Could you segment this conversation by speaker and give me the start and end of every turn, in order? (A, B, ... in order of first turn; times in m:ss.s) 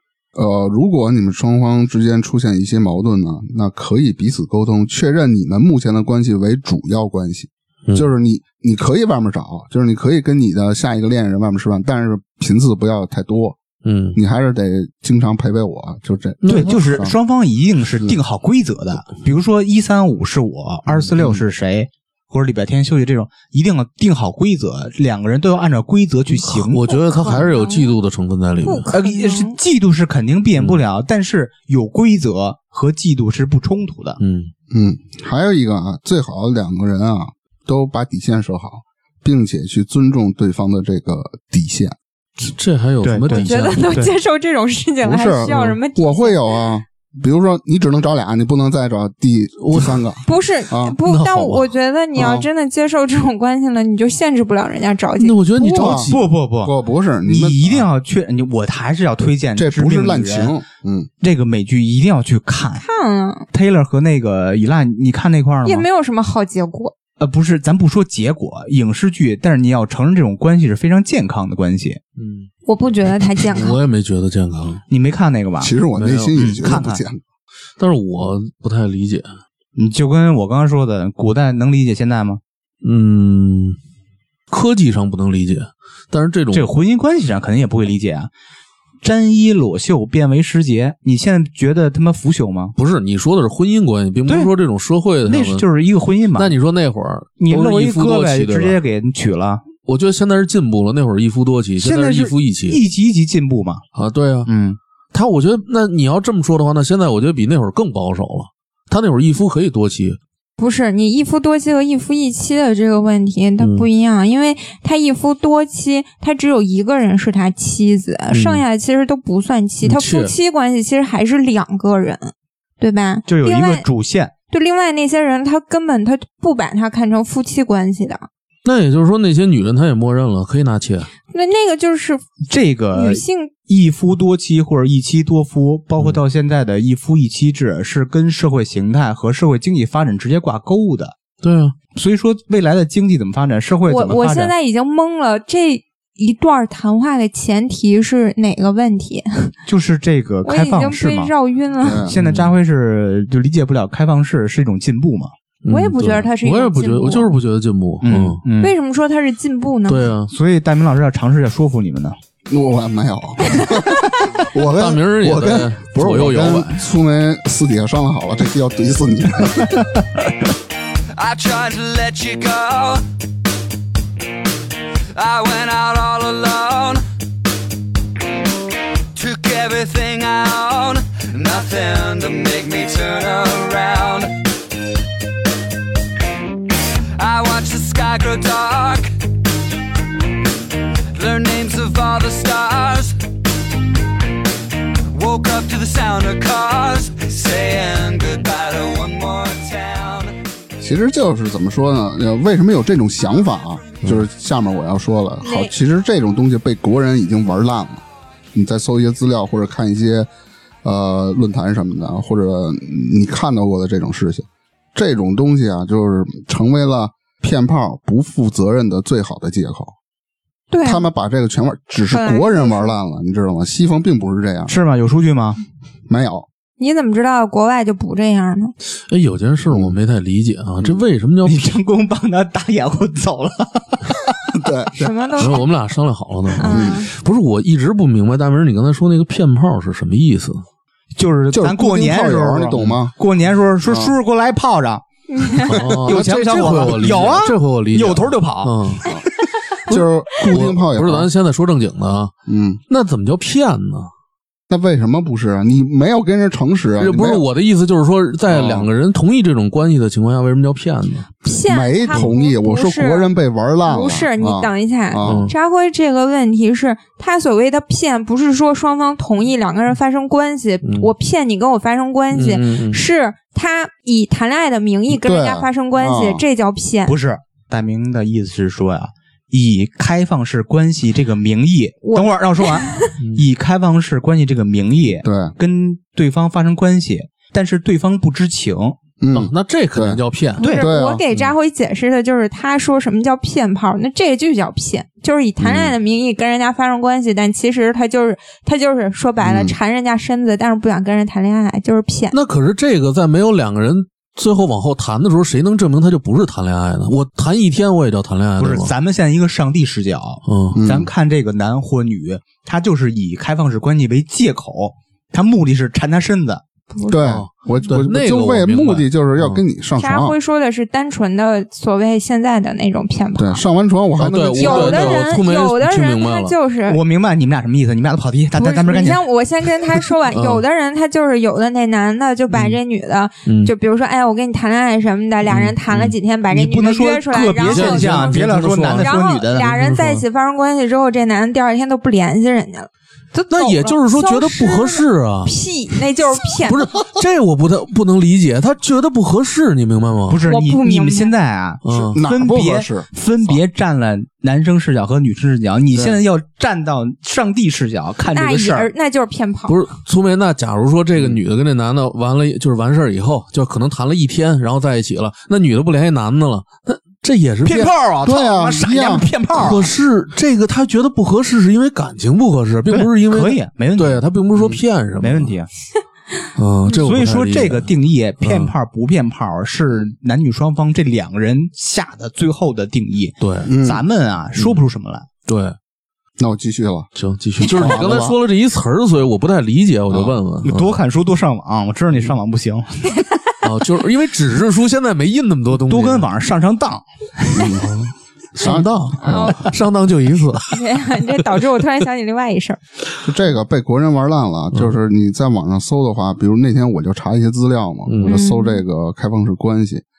0:00.4-0:13.6 A
0:13.8-0:14.2 B
0:14.2-0:17.1 A
0:16.4-0:16.8 B
0:16.5-0:26.8 C
0:26.3-0:28.9 B
0:26.9-0:28.0 D
0:28.6-0:29.6 D
0:28.9-0:34.2 C
0:34.2-0:34.5 B
0:34.7-0:42.0 A
0:42.4-0:43.9 B
0:43.0-0:44.1 C
0:43.3-0:46.6 D
0:45.0-0:51.0 A
0:49.6-0:50.0 B
0:50.2-0:55.4 D
0:51.0-0:51.7 B
0:52.2-0:52.5 A
0:55.2-0:56.2 B
0:55.6-0:57.9 A
0:55.9-0:56.7 C
0:57.3-1:00.5 C
0:59.6-1:01.1 A
1:01.2-1:02.8 C
1:02.8-1:03.5 D
1:03.5-1:05.9 C
1:05.6-1:06.9 D
1:07.2-1:12.0 C
1:12.2-1:12.5 B
1:12.7-1:13.8 D
1:13.4-1:14.8 B
1:14.9-1:15.7 C
1:15.6-1:17.2 A
1:16.0-1:16.3 B
1:16.4-1:17.0 C
1:17.8-1:19.3 B
1:19.8-1:22.4 C
1:22.8-1:23.8 B
1:24.5-1:26.7 B
1:26.5-1:28.3 C
1:29.0-1:32.7 C
1:32.8-1:35.6 B
1:34.3-1:34.5 C
1:35.2-1:36.6 C
1:36.4-1:38.8 B
1:37.4-1:39.6 C
1:39.8-1:42.8 B
1:41.8-1:43.8 C
1:44.0-1:44.5 B
1:44.5-1:44.8 C
1:45.1-1:50.2 B
1:50.6-2:03.8 D
1:53.6-1:53.9 B
1:58.3-1:58.6 B
1:59.8-2:00.3 B
2:03.3-2:04.3 C
2:04.5-2:08.3 D
2:08.6-2:11.1 B
2:11.3-2:12.3 D
2:12.5-2:21.2 C
2:12.9-2:13.5 D
2:21.4-2:21.8 B
2:21.9-2:24.5 C
2:23.9-2:29.5 D
2:29.7-2:31.3 C
2:30.4-2:32.1 D
2:31.8-2:32.2 A
2:32.0-2:35.3 C
2:32.2-2:32.5 B
2:35.6-2:38.4 B
2:35.7-2:37.3 D
2:38.0-2:38.7 C
2:38.6-2:40.1 D
2:39.9-2:40.3 B
2:40.3-2:42.2 C
2:42.5-2:49.9 A
2:44.6-2:46.8 B
2:51.1-2:53.1 E
2:55.1-2:57.0 E
2:59.1-3:04.3 E
3:07.2-3:09.1 E
3:11.1-3:13.2 E
3:15.1-3:20.3 E
3:20.8-3:28.0 A
3:25.4-3:25.7 D
3:28.5-3:30.3 A
3:30.8-3:39.9 A
3:40.7-3:41.1 D
3:40.8-3:44.8 A
3:42.1-3:43.0 D
3:44.7-3:45.6 C
3:46.1-3:46.5 A
3:46.8-3:48.7 D
3:49.1-3:51.7 B
3:49.7-3:50.0 A
3:51.4-3:54.6 C
3:54.5-3:55.1 A
3:55.0-3:55.6 D
3:55.4-4:00.6 B
3:56.6-3:57.1 D
3:56.6-3:57.0 A
4:01.2-4:08.8 C
4:01.5-4:03.1 A
4:03.9-4:04.1 A
4:05.3-4:05.8 D
4:05.7-4:09.0 B
4:09.9-4:11.3 A
4:09.9-4:12.3 B
4:12.5-4:12.8 A
4:12.9-4:14.1 B
4:14.7-4:17.4 A
4:17.0-4:21.3 B
4:18.5-4:18.9 A
4:21.4-4:23.3 D
4:21.7-4:25.5 A
4:23.8-4:37.1 D
4:25.2-4:25.5 B
4:30.8-4:31.1 B
4:32.3-4:33.0 B
4:35.1-4:36.4 A
4:37.1-4:49.0 C
4:42.0-4:43.1 D
4:43.2-4:43.4 B
4:45.2-4:45.5 A
4:49.2-4:50.2 A
4:49.3-4:50.6 B
4:50.6-5:02.4 D
4:50.6-4:50.9 C
4:50.7-4:51.2 A
4:55.6-4:55.9 A
4:59.4-4:59.8 A
5:02.3-5:08.9 B
5:08.6-5:16.6 C
5:10.5-5:10.8 B
5:10.7-5:11.1 A
5:16.9-5:17.4 D
5:17.1-5:20.4 A
5:17.2-5:19.6 B
5:20.0-5:23.6 D
5:23.4-5:25.3 A
5:24.2-5:26.6 B
5:24.6-5:27.0 D
5:26.9-5:29.2 C
5:28.6-5:46.9 D
5:30.3-5:30.6 B
5:33.4-5:33.7 B
5:35.5-5:36.2 B
5:36.5-5:39.8 C
5:37.6-5:40.2 B
5:43.5-5:45.5 B
5:46.6-5:50.4 B
5:50.3-5:58.9 C
5:50.5-5:51.3 D
5:51.8-5:52.2 B
5:52.1-5:53.6 A
5:58.3-5:59.8 D
5:59.7-6:07.9 B
6:07.6-6:10.0 C
6:07.8-6:09.3 A
6:09.5-6:15.5 B
6:12.8-6:14.2 C
6:15.2-6:15.7 C
6:16.6-6:17.9 B
6:16.9-6:25.3 C
6:18.4-6:18.7 B
6:23.4-6:23.7 B
6:23.7-6:24.0 A
6:24.6-6:24.8 B
6:25.5-6:25.8 B
6:26.4-6:28.4 A
6:27.2-6:30.9 B
6:30.1-6:30.4 A
6:30.6-6:33.1 C
6:33.6-6:36.3 B
6:35.7-6:37.7 C
6:37.5-6:38.0 A
6:37.8-6:40.8 B
6:38.6-6:39.6 A
6:39.3-6:39.6 D
6:40.7-6:42.8 D
6:43.2-6:50.0 A
6:48.1-6:48.4 B
6:48.2-6:48.8 D